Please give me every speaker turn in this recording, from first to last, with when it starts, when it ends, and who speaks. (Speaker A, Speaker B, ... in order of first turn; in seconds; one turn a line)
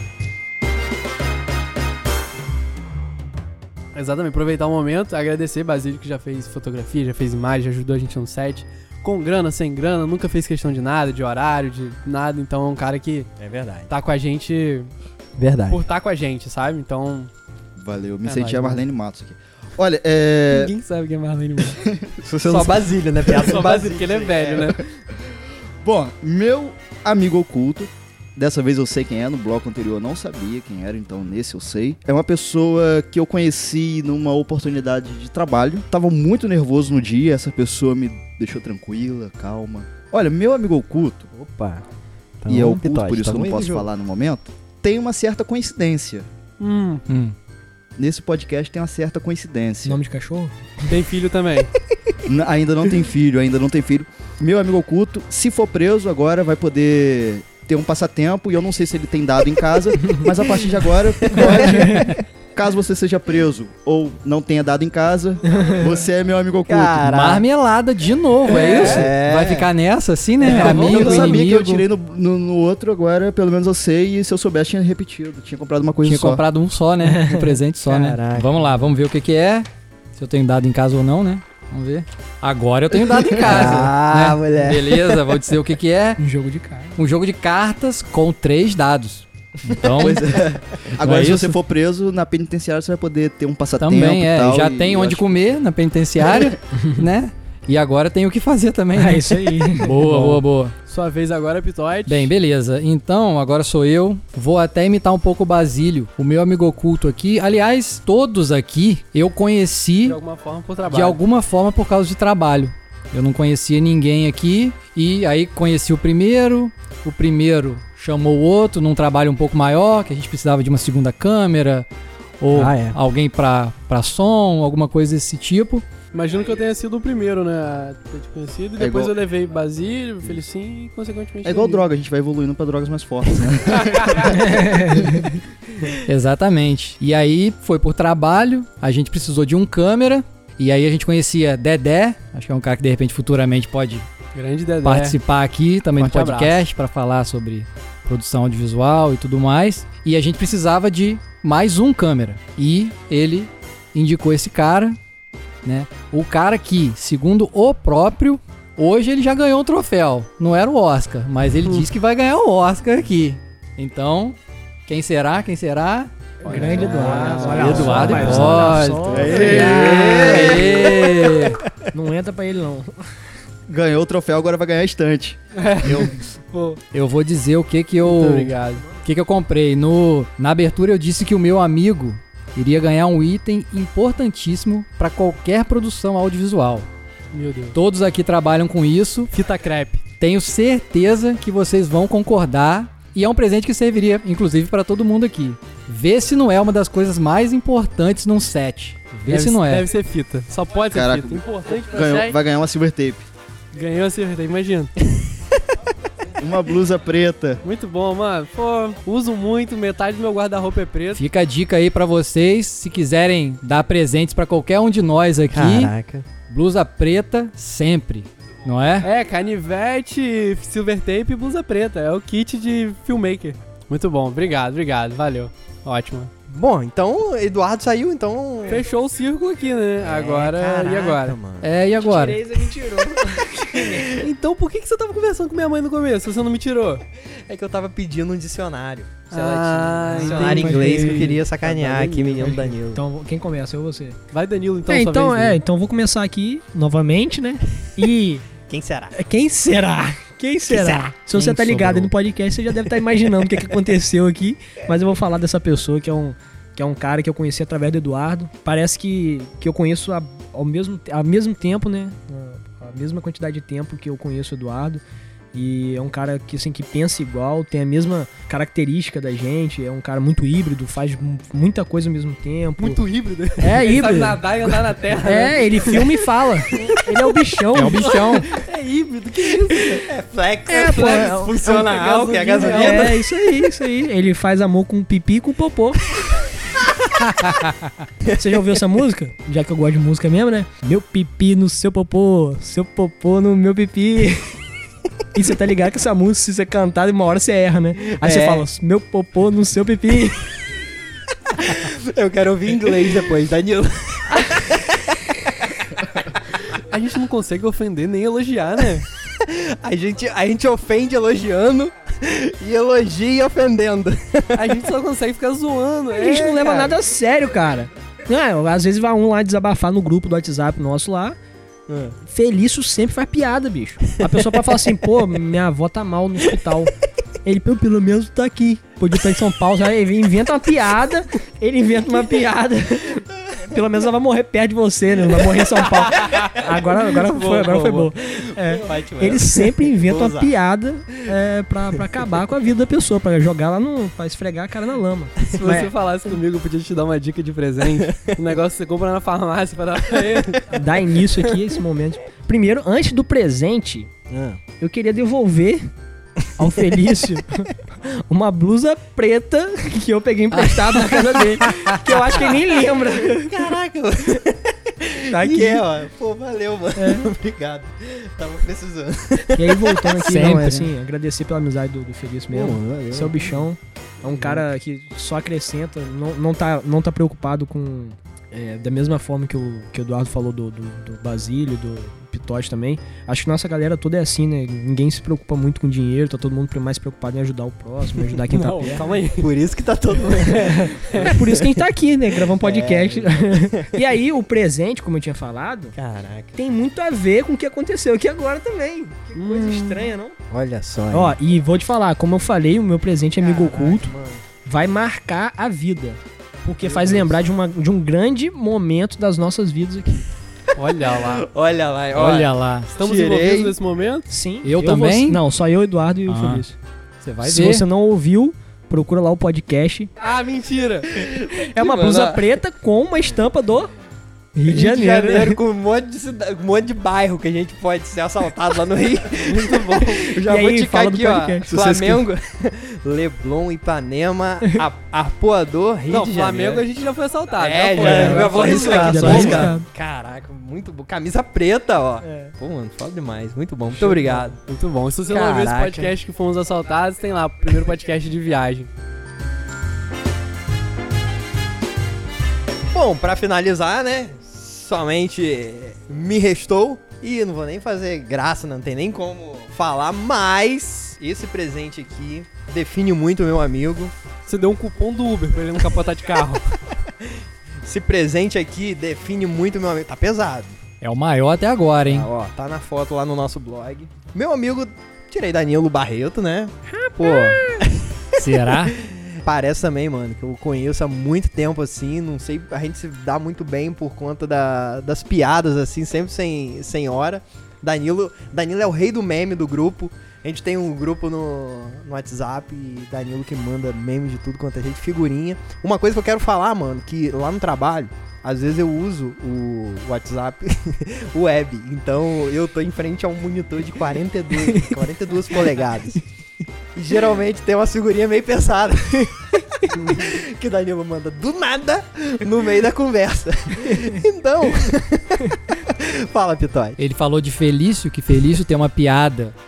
Speaker A: 4.0-13.3
Speaker B: 13.4-13.9
Speaker A: 13.9-14.9
Speaker B: 15.4-15.8
Speaker A: 15.7-17.3
Speaker C: 17.8-20.8
Speaker A: 18.2-18.9
Speaker A: 20.5-21.8
Speaker C: 21.8-22.8
Speaker B: 22.2-24.8
Speaker A: 23.3-24.8
Speaker C: 25.8-41.3
Speaker B: 41.3-41.8
Speaker B: 42.4-43.9
Speaker C: 42.5-46.3
Speaker A: 46.6-47.1
Speaker D: 47.1-47.4
Speaker C: 48.0-50.0
Speaker E: 49.9-50.5
Speaker A: 50.9-51.7
Speaker C: 52.2-67.2
Speaker B: 61.3-61.6
Speaker E: 61.6-62.1
Speaker E: 65.5-65.9
Speaker B: 66.7-67.4
Speaker D: 67.1-71.8
Speaker B: 68.7-69.7
Speaker A: 68.7-69.0
Speaker C: 70.5-76.4
Speaker A: 70.5-71.3
Speaker B: 70.5-71.2
Speaker D: 76.0-86.2
Speaker E: 77.0-77.6
Speaker B: 77.9-78.5
Speaker B: 83.4-85.2
Speaker E: 86.2-87.0
Speaker D: 87.0-90.5
Speaker C: 90.0-95.3
Speaker D: 91.0-91.6
Speaker D: 93.8-100.7
Speaker E: 99.0-100.0
Speaker A: 99.9-102.3
Speaker D: 102.1-110.2
Speaker A: 110.0-111.2
Speaker D: 110.9-121.9
Speaker D: 122.4-125.9
Speaker B: 122.5-123.0
Speaker A: 126.1-131.8
Speaker C: 128.8-129.2
Speaker C: 131.4-135.2
Speaker E: 134.3-135.3
Speaker D: 136.0-144.1
Speaker A: 144.3-145.2
Speaker D: 144.8-155.0
Speaker A: 146.0-146.6
Speaker D: 155.6-164.4
Speaker D: 164.9-166.1
Speaker A: 166.4-170.7
Speaker E: 166.4-169.8
Speaker D: 166.7-171.6
Speaker B: 167.6-168.3
Speaker C: 169.1-170.6
Speaker B: 169.3-171.9
Speaker E: 171.9-172.9
Speaker C: 173.7-176.1
Speaker A: 175.6-176.8
Speaker D: 176.9-186.9
Speaker A: 178.0-178.9
Speaker A: 187.3-187.8
Speaker D: 187.7-189.3
Speaker A: 189.3-190.1
Speaker D: 190.2-199.9
Speaker A: 199.3-202.4
Speaker C: 200.9-203.3
Speaker A: 203.7-205.0
Speaker C: 206.4-207.6
Speaker A: 207.6-211.2
Speaker D: 211.2-215.9
Speaker B: 215.5-216.3
Speaker D: 216.5-219.1
Speaker A: 219.0-226.3
Speaker B: 226.5-228.8
Speaker A: 228.7-231.4
Speaker B: 230.0-231.7
Speaker D: 231.6-232.4
Speaker E: 232.0-234.2
Speaker A: 234.2-237.0
Speaker B: 237.5-243.0
Speaker A: 239.3-242.6
Speaker E: 240.1-241.4
Speaker E: 242.4-244.2
Speaker A: 244.3-245.6
Speaker E: 244.9-248.5
Speaker B: 248.6-249.2
Speaker E: 249.1-265.0
Speaker B: 250.7-251.1
Speaker D: 251.3-252.1
Speaker E: 265.5-273.0
Speaker A: 272.8-276.2
Speaker E: 273.6-278.5
Speaker D: 277.7-278.5
Speaker A: 278.4-280.0
Speaker B: 279.9-283.2
Speaker E: 280.7-281.6
Speaker A: 280.7-283.2
Speaker E: 282.6-286.2
Speaker E: 288.3-294.6
Speaker E: 295.3-300.5
Speaker B: 298.2-298.7
Speaker B: 301.5-306.0
Speaker A: 306.9-309.1
Speaker B: 309.1-314.7
Speaker A: 314.5-316.9
Speaker E: 316.1-321.4
Speaker B: 316.6-316.9
Speaker B: 321.9-322.2
Speaker E: 322.2-326.9
Speaker E: 327.4-345.9
Speaker A: 337.3-338.1
Speaker B: 337.6-337.8
Speaker B: 338.4-340.5
Speaker A: 345.5-350.7
Speaker B: 347.9-348.4
Speaker E: 350.7-354.2
Speaker B: 354.3-354.6
Speaker E: 354.8-355.9
Speaker E: 356.6-363.6
Speaker D: 360.5-361.9
Speaker B: 363.3-370.1
Speaker E: 365.3-365.9
Speaker E: 367.0-367.3
Speaker E: 369.6-389.2
Speaker D: 370.1-370.9
Speaker B: 372.5-373.6
Speaker B: 374.3-374.6
Speaker A: 388.5-389.5
Speaker B: 389.4-391.8
Speaker E: 390.4-396.0
Speaker B: 392.5-393.9
Speaker B: 395.9-396.6
Speaker E: 396.6-400.4
Speaker A: 399.4-400.1
Speaker B: 400.5-401.4
Speaker E: 401.1-410.3
Speaker B: 403.4-404.4
Speaker B: 406.9-407.3
Speaker A: 410.8-411.5
Speaker B: 411.1-413.8
Speaker D: 412.1-412.9
Speaker A: 413.0-414.3
Speaker E: 414.3-416.8
Speaker D: 414.6-415.4
Speaker D: 416.3-416.6
Speaker D: 417.2-417.9
Speaker E: 417.4-420.1
Speaker A: 420.2-421.6
Speaker B: 421.1-422.5
Speaker E: 421.6-423.9
Speaker E: 424.6-425.6
Speaker B: 424.7-436.9
Speaker A: 429.4-430.4
Speaker E: 430.4-432.2
Speaker A: 436.1-439.8
Speaker B: 437.6-444.6
Speaker E: 438.0-439.9
Speaker E: 442.2-442.5
Speaker A: 444.0-448.9
Speaker B: 445.3-446.1
Speaker B: 452.9-464.1
Speaker A: 464.4-466.8
Speaker B: 467.8-470.8
Speaker D: 471.0-472.3
Speaker B: 472.1-506.2
Speaker E: 476.9-477.8
Speaker D: 478.4-479.1
Speaker B: 506.9-509.4
Speaker B: 509.9-517.0
Speaker D: 517.0-519.5